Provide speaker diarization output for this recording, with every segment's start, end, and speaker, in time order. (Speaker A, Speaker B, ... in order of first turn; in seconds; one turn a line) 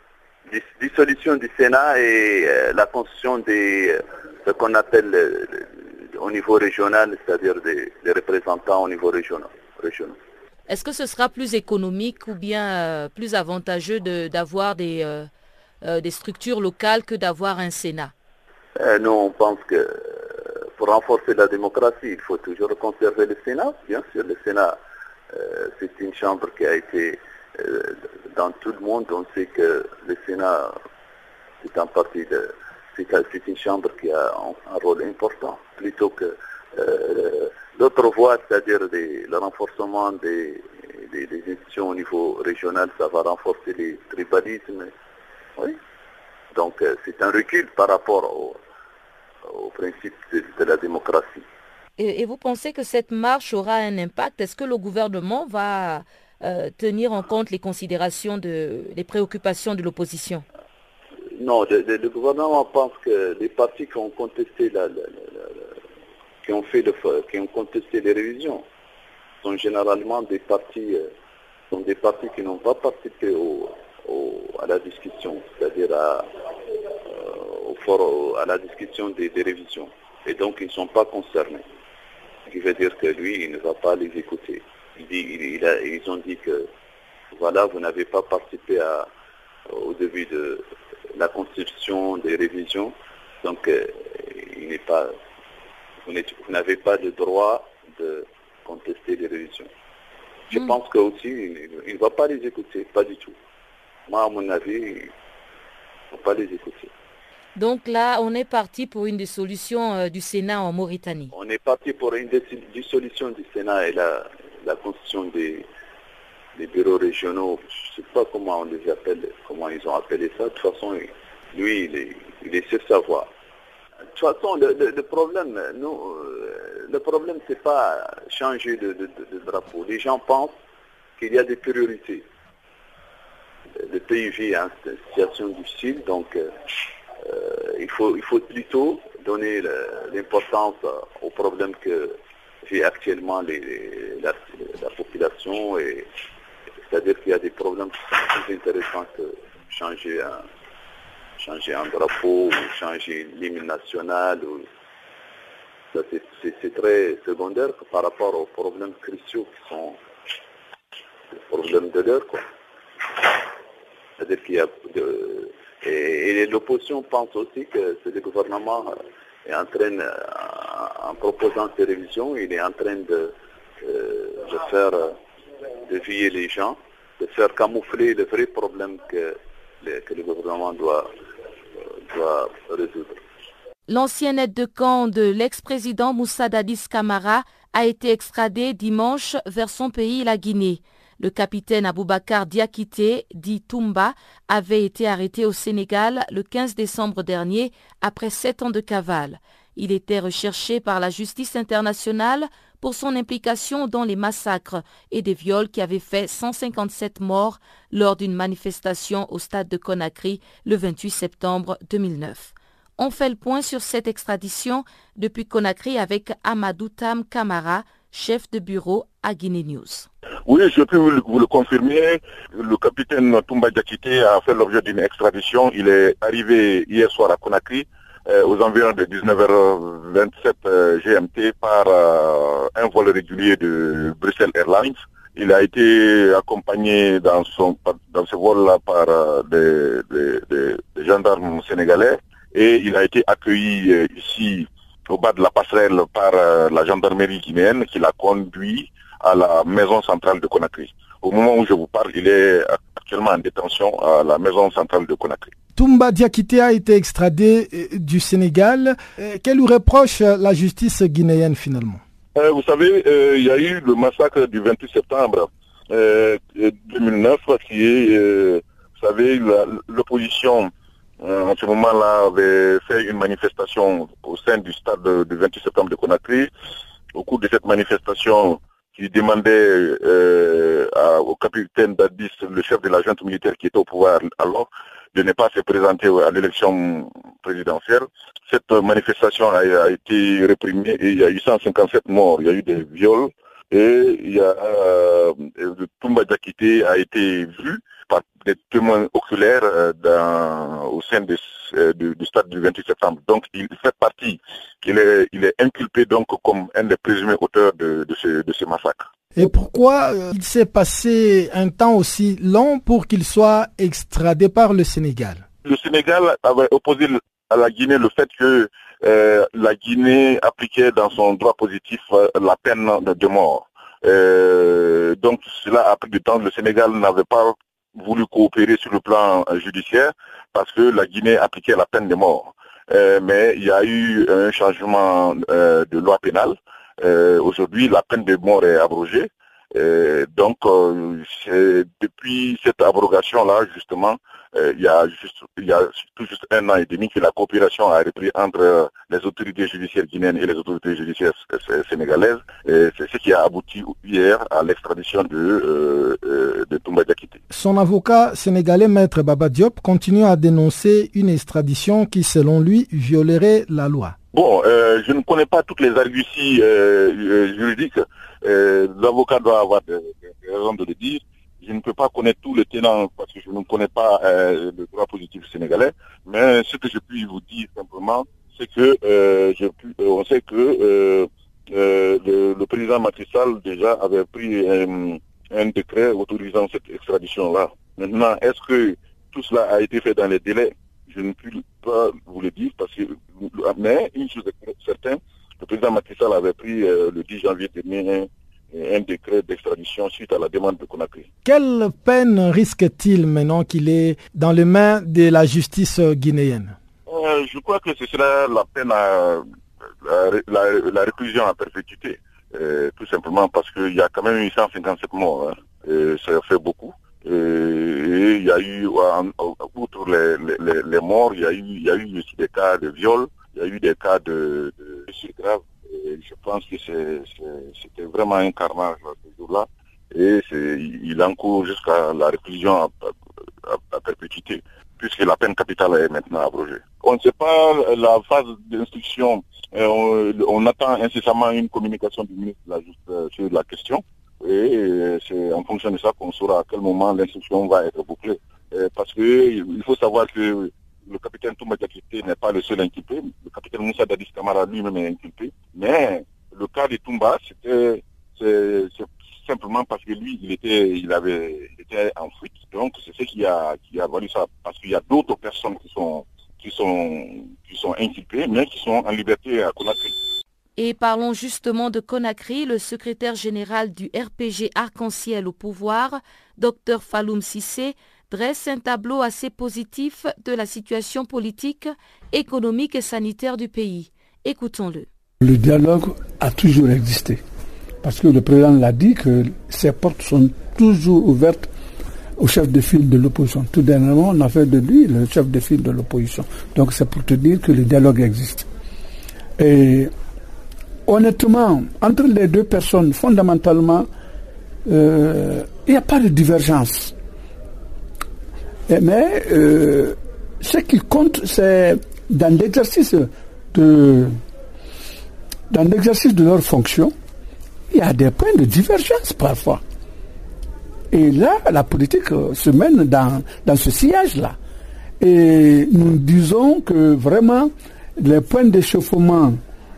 Speaker A: 0.5-10.2
Speaker B: 10.7-15.3
Speaker B: 15.8-18.1
Speaker A: 18.8-24.8
Speaker A: 25.3-30.8
Speaker A: 31.6-44.9
Speaker A: 46.5-48.6
Speaker A: 49.4-51.4
Speaker B: 52.0-60.4
Speaker A: 61.3-65.7
Speaker A: 66.4-68.7
Speaker A: 69.4-71.1
Speaker A: 71.7-76.3
Speaker A: 77.0-81.7
Speaker A: 82.5-86.7
Speaker A: 87.3-89.1
Speaker A: 89.7-95.2
Speaker A: 96.0-99.7
Speaker A: 100.5-103.3
Speaker A: 104.1-105.1
Speaker A: 106.1-106.9
Speaker B: 107.5-111.3
Speaker A: 111.3-115.7
Speaker A: 116.5-123.3
Speaker A: 124.1-130.6
Speaker A: 131.2-132.2
Speaker A: 133.8-136.6
Speaker A: 137.2-146.1
Speaker A: 146.9-150.5
Speaker A: 151.4-154.7
Speaker A: 155.9-160.0
Speaker A: 161.3-162.4
Speaker A: 164.2-168.9
Speaker A: 169.4-175.2
Speaker A: 175.8-181.1
Speaker A: 181.8-183.2
Speaker B: 183.9-220.1
Speaker C: 220.5-255.5
Speaker D: 255.8-262.0
Speaker C: 262.3-276.5
Speaker C: 277.1-309.0
Speaker D: 309.3-315.4
Speaker C: 315.6-357.4
Speaker D: 357.5-364.1
Speaker C: 364.3-401.3
Speaker D: 401.4-406.8
Speaker C: 407.1-409.4
Speaker C: 410.0-433.1
Speaker C: 433.6-470.1
Speaker B: 470.8-485.1
Speaker E: 485.4-487.4
Speaker E: 488.0-491.7
Speaker E: 492.4-498.7
Speaker E: 499.6-500.1
Speaker E: 501.1-504.1
Speaker E: 504.9-507.1
Speaker E: 508.9-514.4
Speaker E: 515.7-517.1
Speaker E: 517.9-519.8
Speaker E: 521.1-524.6
Speaker E: 525.2-529.6